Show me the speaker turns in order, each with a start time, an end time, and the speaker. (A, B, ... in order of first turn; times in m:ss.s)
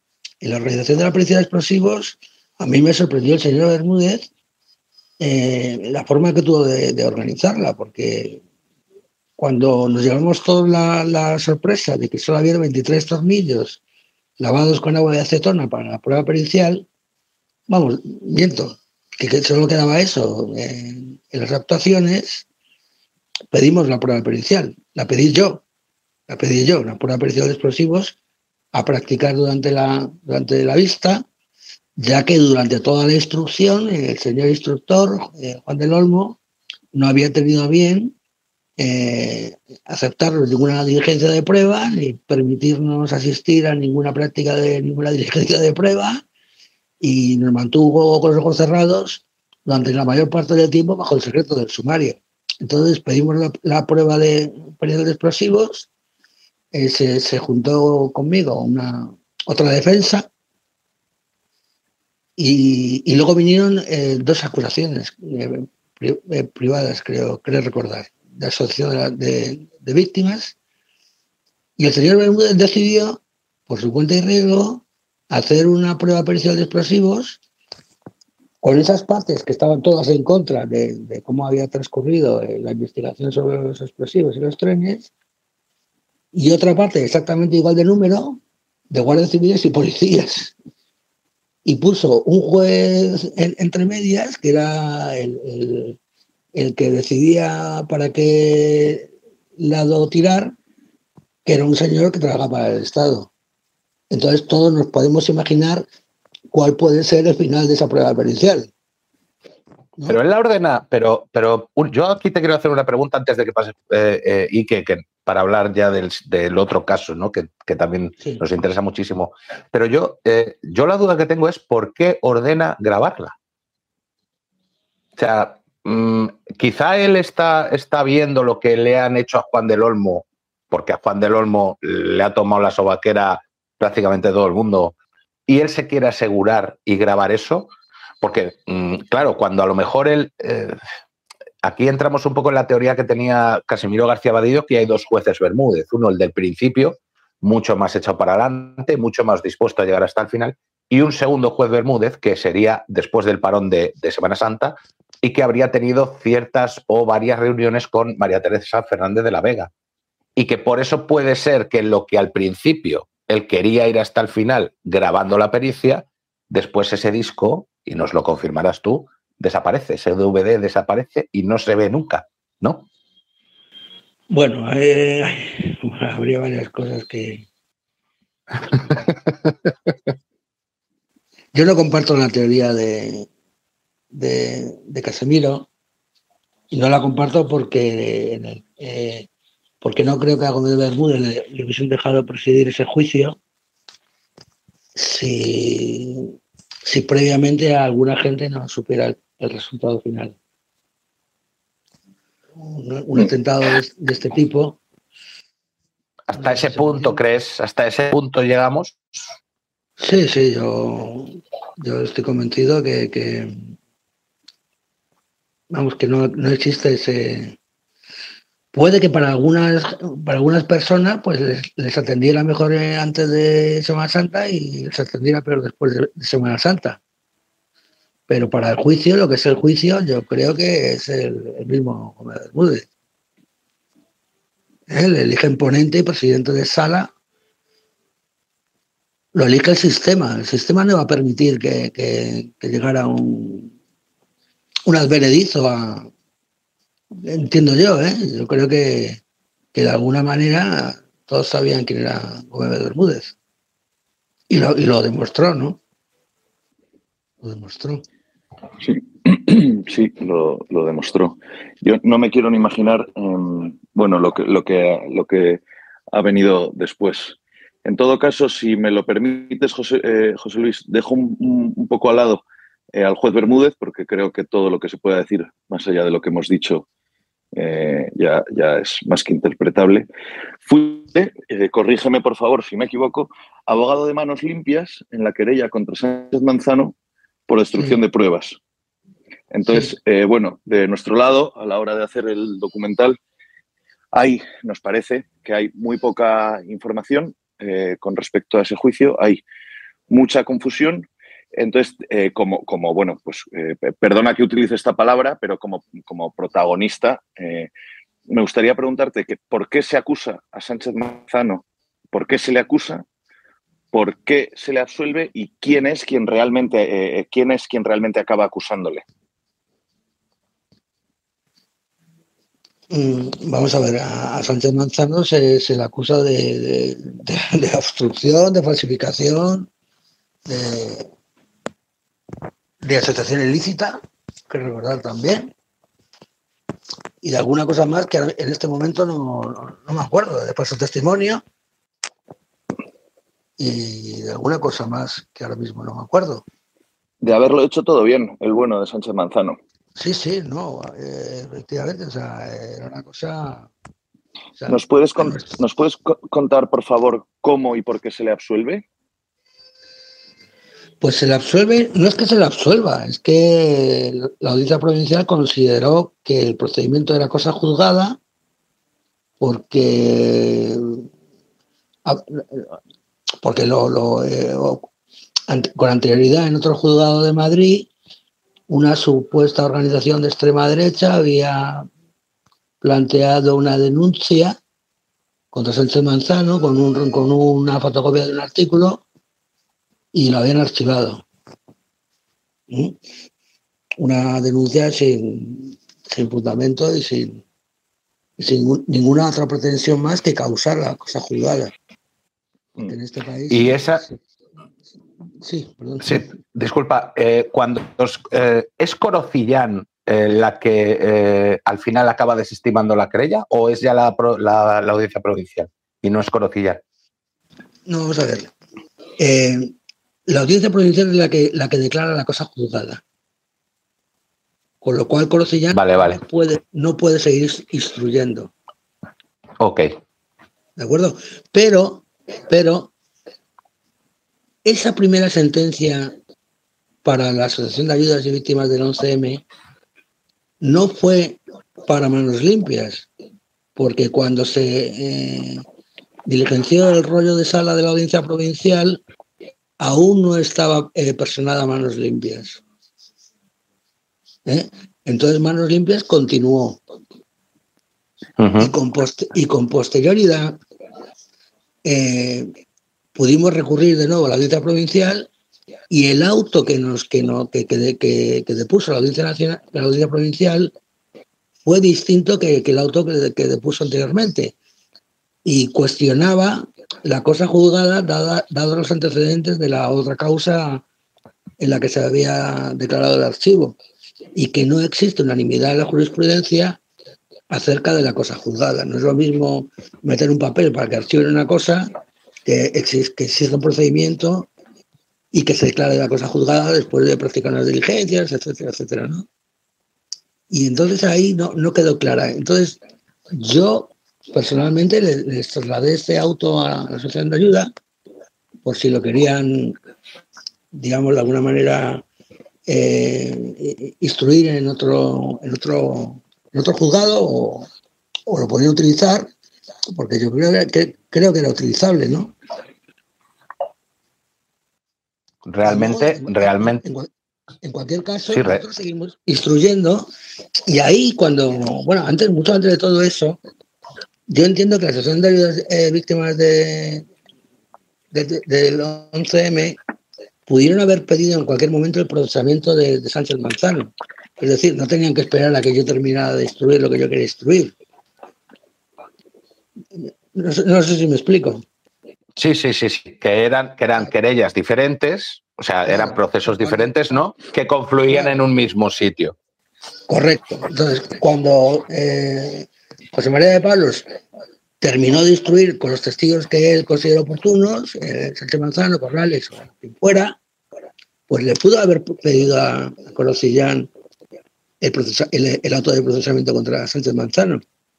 0:00.4-0:04.3 A
0:05.2-0:08.4 A
0:09.4-0:13.8 A
0:14.4-0:16.9 A
0:17.7-0:22.5 A
0:23.5-0:25.6 A
0:26.3-0:28.2 A
0:28.7-0:31.2 A
0:32.0-0:36.4 A
0:36.9-0:38.2 A
0:38.8-0:46.2 A
0:47.0-0:55.9 A
0:56.7-1:00.3 A
1:02.4-1:10.6 A
1:11.8-1:17.4 A
1:18.6-1:25.1 A
1:26.3-1:28.4 A
1:28.9-1:30.5 A
1:31.6-1:36.0 A
1:36.6-1:40.5 A
1:41.4-1:43.3 A
1:44.1-1:45.9 A
1:46.5-1:48.7 A
1:50.1-2:03.4 B
2:05.2-2:15.0 B
2:15.5-2:20.8 B
2:21.6-2:39.7 B
2:40.4-2:52.9 B
2:54.3-2:57.4 A
3:01.5-3:03.3 A
3:04.1-3:05.7 A
3:06.7-3:09.3 A
3:09.8-3:13.4 A
3:15.0-3:16.3 A
3:16.9-3:20.4 A
3:22.6-3:24.8 A
3:26.3-3:29.0 B
3:26.4-3:27.2 A
3:30.0-3:33.6 A
3:35.7-3:37.6 A
3:38.7-3:47.0 A
3:48.3-3:52.9 A
3:54.9-3:57.1 A
3:59.3-4:03.7 A
4:04.9-4:06.1 A
4:07.2-4:09.2 A
4:09.7-4:13.4 A
4:14.5-4:15.8 A
4:17.4-4:18.0 A
4:18.8-4:25.6 C
4:26.1-4:32.4 C
4:32.9-4:36.9 C
4:37.6-4:40.1 C
4:40.6-4:47.0 C
4:47.5-4:48.6 C
4:49.5-4:53.2 C
4:54.1-4:59.4 C
5:00.1-5:07.7 C
5:08.3-5:13.0 C
5:13.9-5:19.0 C
5:22.9-5:29.7 A
5:30.5-5:31.1 A
5:32.8-5:35.5 A
5:37.2-5:41.4 A
5:43.6-5:46.4 A
5:47.2-5:49.6 C
5:50.0-5:53.7 A
5:54.6-5:55.5 A
5:54.7-5:58.8 C
6:01.0-6:08.2 A
6:09.4-6:11.0 A
6:12.0-6:12.7 A
6:13.4-6:14.9 A
6:15.5-6:17.9 A
6:18.7-6:21.9 A
6:22.8-6:24.6 A
6:25.5-6:29.0 A
6:30.1-6:31.2 A
6:32.7-6:33.0 A
6:34.0-6:37.4 A
6:38.4-6:41.7 A
6:42.8-6:44.1 A
6:43.5-6:44.0 B
6:45.4-6:46.3 A
6:46.0-6:56.8 B
6:57.9-6:58.5 A
6:59.2-6:59.7 A
7:00.3-7:03.0 A
7:04.8-7:08.5 A
7:05.7-7:06.2 B
7:09.6-7:09.9 B
7:10.8-7:12.9 A
7:14.6-7:16.1 A
7:17.0-7:19.4 A
7:20.6-7:23.1 A
7:23.8-7:25.6 A
7:26.3-7:29.0 A
7:29.8-7:32.6 A
7:34.4-7:36.8 A
7:38.4-7:38.7 B
7:38.6-7:40.6 A
7:41.8-7:42.5 A
7:43.2-7:45.3 A
7:45.9-7:50.7 A
7:51.6-7:54.6 A
7:55.4-8:00.8 A
8:01.6-8:03.8 A
8:04.4-8:06.8 A
8:07.5-8:11.9 A
8:12.4-8:14.5 A
8:15.3-8:19.3 A
8:20.5-8:22.8 A
8:23.3-8:27.7 A
8:28.6-8:29.8 A
8:30.7-8:32.0 A
8:32.7-8:37.7 A
8:38.3-8:39.3 A
8:39.9-8:42.3 A
8:45.4-8:46.8 B
8:45.6-8:47.1 A
8:47.6-8:50.1 A
8:48.3-8:48.6 B
8:50.7-8:53.4 A
8:54.3-8:57.1 A
8:58.1-8:59.8 A
9:00.5-9:07.7 A
9:10.0-9:11.6 A
9:12.4-9:19.4 B
9:15.9-9:16.9 A
9:18.1-9:18.4 A
9:20.1-9:24.1 A
9:24.8-9:30.4 A
9:31.3-9:33.9 A
9:34.8-9:37.6 A